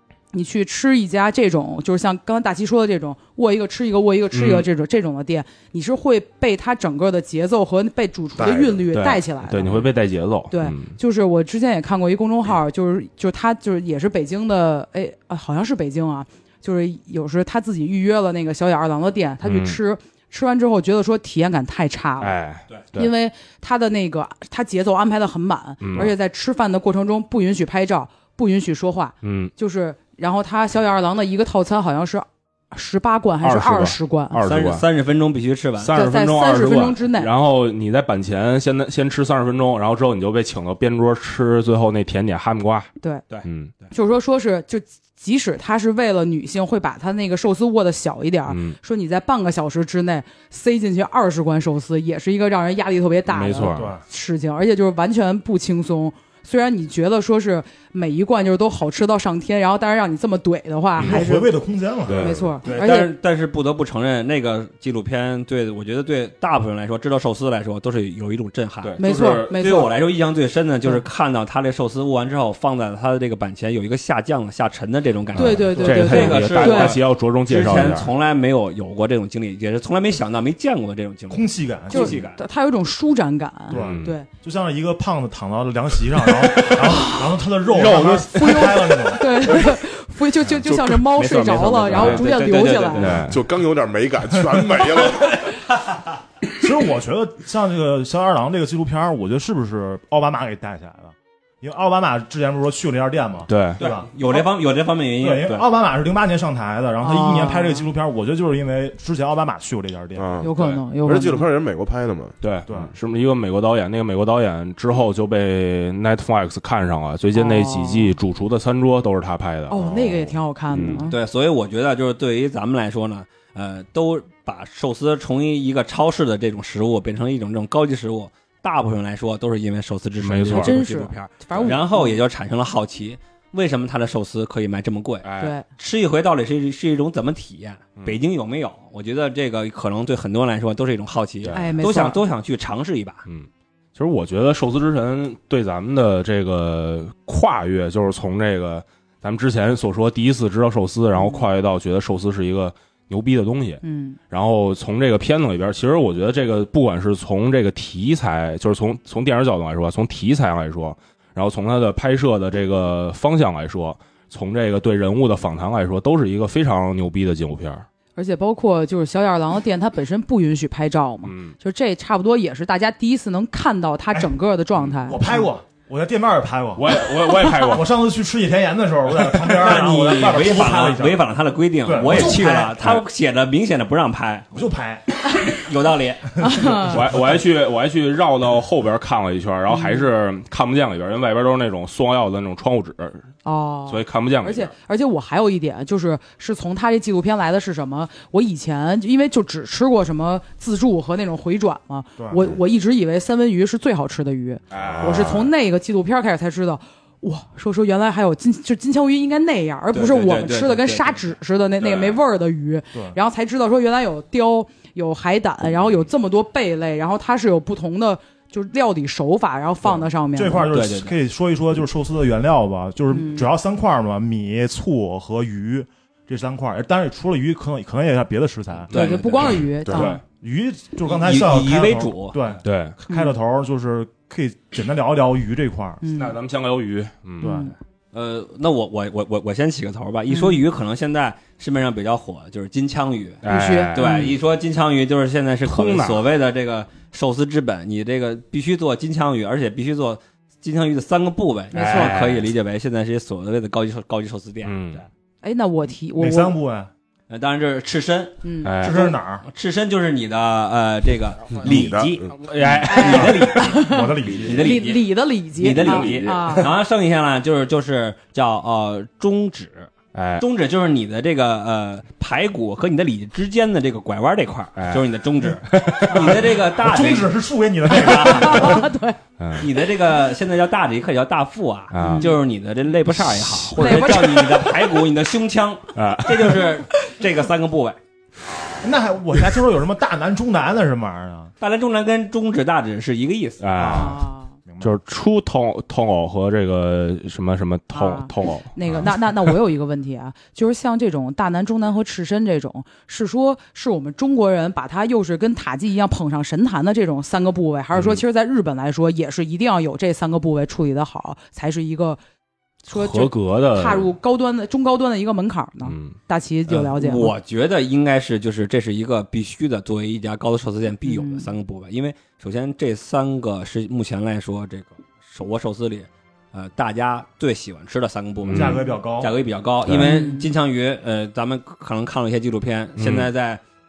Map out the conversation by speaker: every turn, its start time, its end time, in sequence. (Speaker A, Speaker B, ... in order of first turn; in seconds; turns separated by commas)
Speaker A: 0.3-9.9, Speaker B: 4.3-4.7, Speaker C: 8.4-8.8, Speaker B: 8.9-11.0, Speaker A: 10.5-22.4, Speaker B: 19.4-19.8, Speaker B: 22.2-23.1, Speaker A: 22.9-34.4, Speaker B: 25.8-26.1, Speaker B: 29.2-29.5, Speaker B: 33.4-34.9, Speaker D: 34.5-36.0, Speaker B: 35.8-42.9, Speaker A: 35.9-37.3, Speaker D: 43.3-43.9, Speaker B: 43.4-43.7, Speaker A: 43.9-61.5, Speaker B: 48.5-48.8, Speaker B: 53.3-54.0, Speaker E: 53.7-54.0, Speaker E: 61.0-62.4, Speaker B: 62.1-62.5, Speaker A: 62.2-63.1, Speaker D: 62.6-69.0, Speaker B: 68.8-69.6, Speaker A: 69.0-69.9, Speaker D: 69.5-82.4, Speaker B: 75.3-78.1, Speaker A: 75.4-77.0, Speaker E: 81.3-82.2, Speaker A: 81.9-84.3, Speaker B: 83.7-84.1, Speaker E: 83.7-89.4, Speaker D: 87.8-88.1, Speaker A: 87.9-93.2, Speaker D: 90.9-93.3, Speaker B: 91.9-92.2, Speaker B: 93.0-93.4, Speaker C: 93.2-95.5, Speaker E: 96.6-104.4, Speaker B: 103.5-103.8, Speaker D: 103.8-105.7, Speaker E: 105.2-110.4, Speaker A: 107.0-107.9, Speaker C: 110.2-112.3, Speaker A: 110.4-111.5, Speaker B: 112.4-120.2, Speaker E: 112.7-112.9, Speaker A: 117.3-118.2, Speaker A: 119.7-121.2, Speaker B: 120.7-121.1, Speaker D: 121.1-143.2, Speaker B: 130.2-130.8, Speaker A: 130.5-132.2, Speaker B: 131.5-131.8, Speaker B: 135.2-135.6, Speaker A: 135.4-135.7, Speaker B: 141.4-141.8, Speaker A: 141.5-142.2, Speaker B: 143.3-167.9, Speaker A: 151.1-151.5, Speaker A: 153.8-154.2, Speaker A: 168.2-175.4, Speaker B: 171.2-171.6, Speaker E: 175.1-177.0, Speaker B: 176.8-177.9, Speaker E: 177.6-181.3, Speaker D: 179.4-184.7, Speaker E: 181.8-182.8, Speaker B: 182.1-183.0, Speaker E: 184.5-185.2, Speaker D: 185.4-186.3, Speaker A: 186.4-187.0, Speaker E: 186.4-187.2, Speaker B: 186.8-193.3, Speaker A: 189.7-190.1, Speaker A: 193.4-220.7, Speaker B: 193.9-194.7, Speaker E: 202.2-202.5, Speaker B: 204.7-205.5, Speaker D: 209.9-211.3, Speaker B: 211.8-212.2, Speaker E: 220.3-228.9, Speaker D: 220.7-221.2, Speaker A: 223.1-223.5, Speaker D: 228.9-229.7, Speaker A: 228.9-230.2, Speaker C: 229.8-230.1, Speaker B: 229.9-230.2, Speaker E: 230.3-236.0, Speaker D: 231.1-232.4, Speaker B: 232.6-233.0, Speaker A: 233.1-233.3, Speaker A: 236.0-236.4, Speaker B: 236.1-237.5, Speaker A: 237.4-237.7, Speaker E: 237.4-237.7, Speaker D: 238.1-255.1, Speaker A: 240.3-240.7, Speaker B: 243.4-244.3, Speaker A: 243.5-244.4, Speaker B: 245.7-246.2, Speaker A: 251.7-252.1, Speaker B: 251.7-252.5, Speaker B: 254.7-255.0, Speaker A: 255.4-256.6, Speaker E: 256.2-256.9, Speaker D: 257.3-265.1, Speaker A: 258.4-259.0, Speaker B: 258.6-259.0, Speaker E: 258.8-259.4, Speaker C: 261.6-262.4, Speaker B: 262.4-263.7, Speaker A: 262.9-266.7, Speaker E: 263.9-264.7, Speaker D: 265.6-277.3, Speaker B: 265.7-266.6, Speaker B: 270.1-270.4, Speaker B: 274.8-275.0, Speaker B: 275.6-276.4, Speaker E: 276.0-278.9, Speaker D: 277.9-278.7, Speaker A: 278.0-279.2, Speaker B: 279.4-279.7, Speaker D: 279.6-288.0, Speaker B: 281.9-282.4, Speaker A: 282.0-282.4, Speaker B: 283.2-284.3, Speaker A: 283.8-285.0, Speaker B: 285.9-286.7, Speaker E: 288.8-291.5, Speaker D: 291.6-293.6, Speaker B: 293.6-294.2, Speaker E: 293.8-294.9, Speaker A: 293.8-294.5, Speaker B: 294.8-299.5, Speaker A: 297.9-312.2, Speaker B: 307.9-308.2, Speaker A: 312.9-317.4, Speaker B: 312.9-314.1, Speaker B: 315.8-316.2, Speaker D: 316.7-333.6, Speaker A: 321.1-321.5, Speaker B: 328.5-328.8, Speaker E: 328.5-329.3, Speaker A: 328.6-329.0, Speaker B: 329.9-330.2, Speaker A: 329.9-330.5, Speaker B: 333.0-333.3